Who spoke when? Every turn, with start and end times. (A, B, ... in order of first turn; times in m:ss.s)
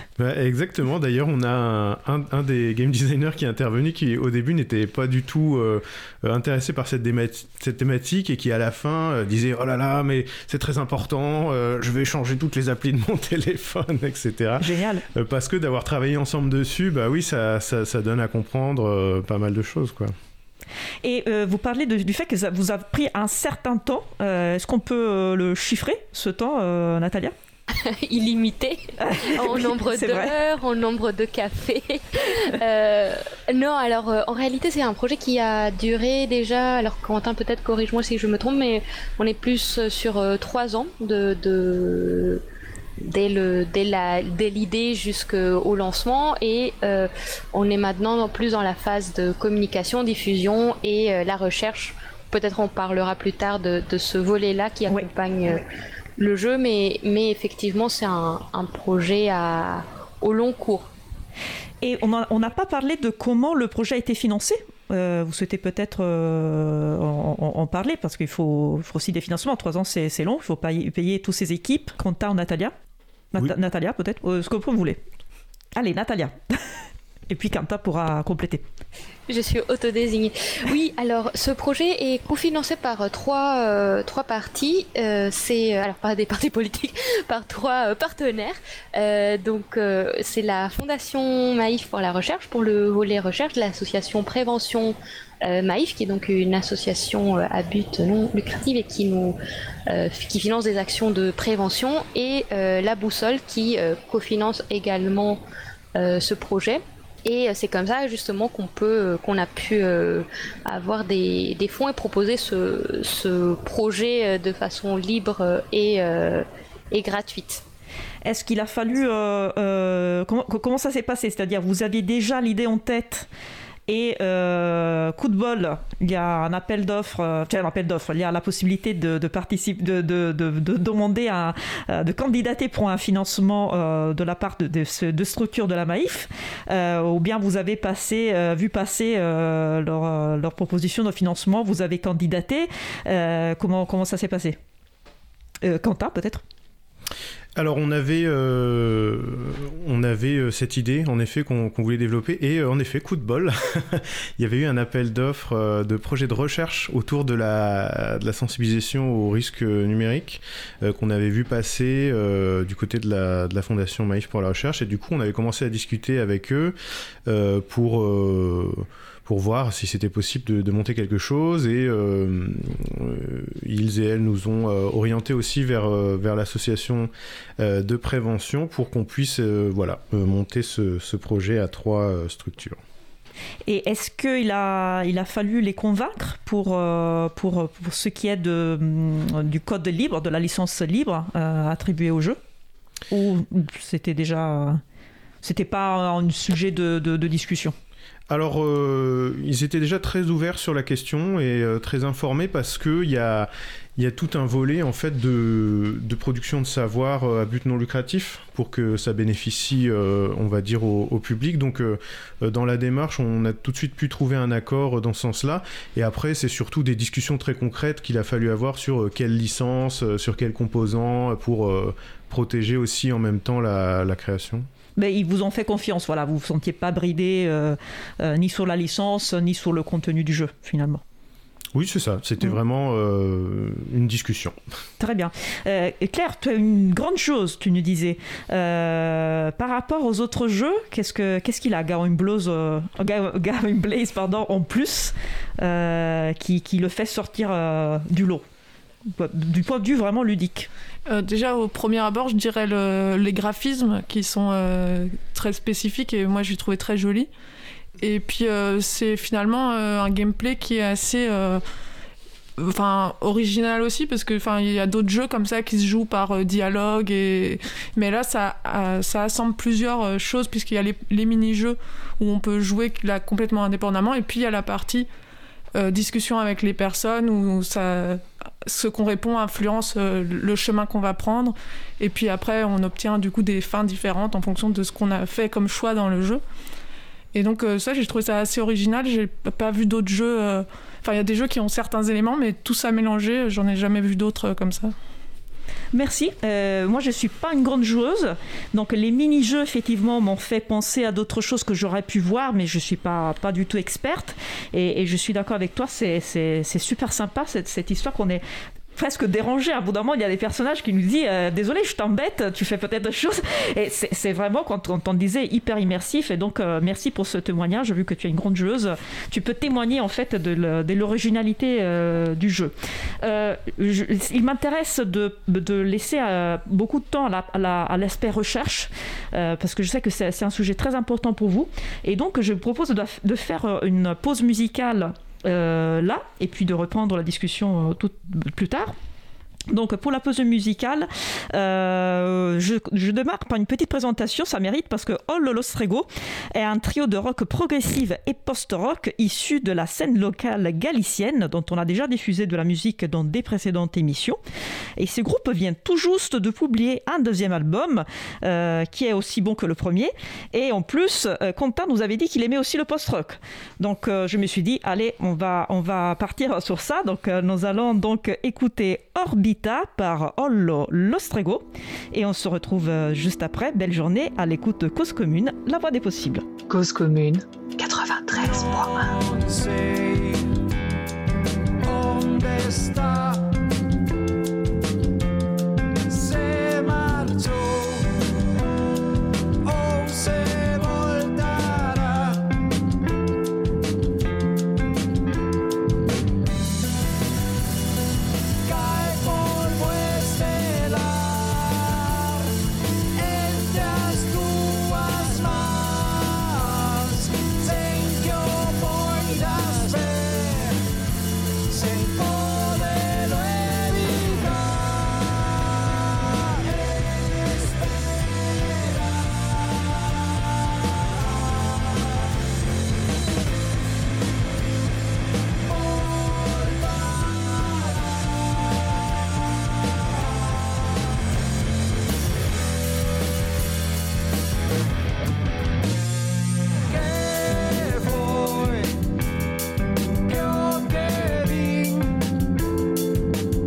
0:00.2-0:20.1 A
0:14.6-0:15.0 B
0:21.0-0:27.3 B
0:27.8-0:42.4 C
0:29.0-0:30.3 B
0:43.0-0:55.6 C
0:56.2-1:00.9 C
1:01.8-1:12.7 B
1:13.3-1:15.0 B
1:15.7-1:18.6 B
1:19.3-1:45.4 C
1:45.9-1:57.6 C
1:58.2-2:03.3 B
2:03.9-2:24.6 B
2:25.6-2:26.4 B
2:27.6-2:46.7 A
2:47.2-3:02.8 A
3:03.7-3:12.4 B
3:13.1-3:14.8 B
3:15.4-3:17.7 B
3:18.3-3:44.6 A
3:45.0-3:51.0 B
3:51.7-3:54.6 A
3:55.0-4:08.4 B
4:09.0-4:10.7 B
4:11.1-4:17.3 D
4:18.0-4:21.6 D
4:22.6-4:35.1 D
4:35.8-4:46.4 D
4:47.3-4:54.9 D
4:55.9-5:08.4 B
5:09.0-5:38.9 B
5:39.7-5:54.4 B
5:55.0-6:16.5 B
6:16.7-6:20.4 E
6:21.8-6:23.4 E
6:26.1-6:28.0 E
6:29.6-6:32.4 E
6:38.6-6:42.3 E
6:43.2-6:50.8 E
6:51.7-6:55.0 E
7:17.1-7:18.9 E
7:20.3-7:22.0 E